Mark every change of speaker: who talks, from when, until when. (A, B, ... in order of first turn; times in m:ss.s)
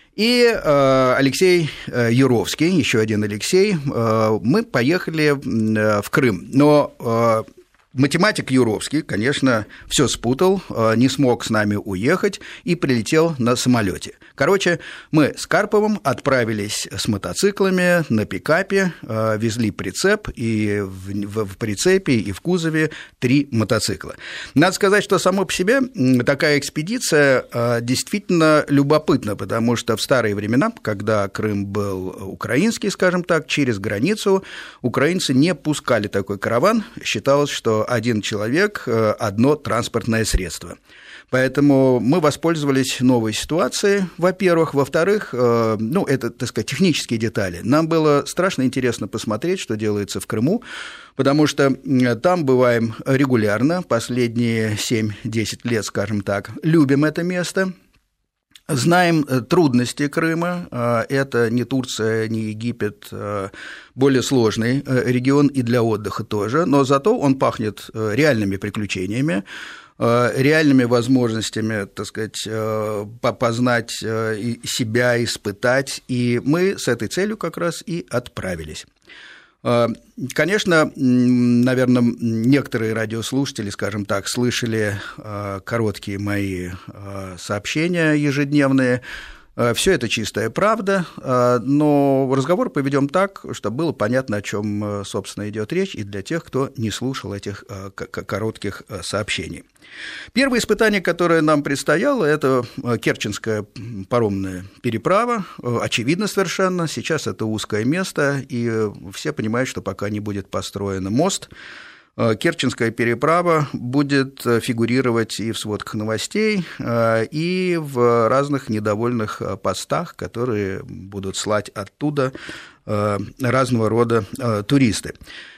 0:00.2-0:40.8 A
0:41.3-0:50.6 A
0:51.2-0:57.7 A
0:58.7-1:09.4 A
1:10.0-1:18.9 A
1:19.6-1:29.0 A
1:29.6-1:39.6 A
1:40.3-1:51.5 A
1:52.2-2:02.3 A
2:02.8-2:05.1 A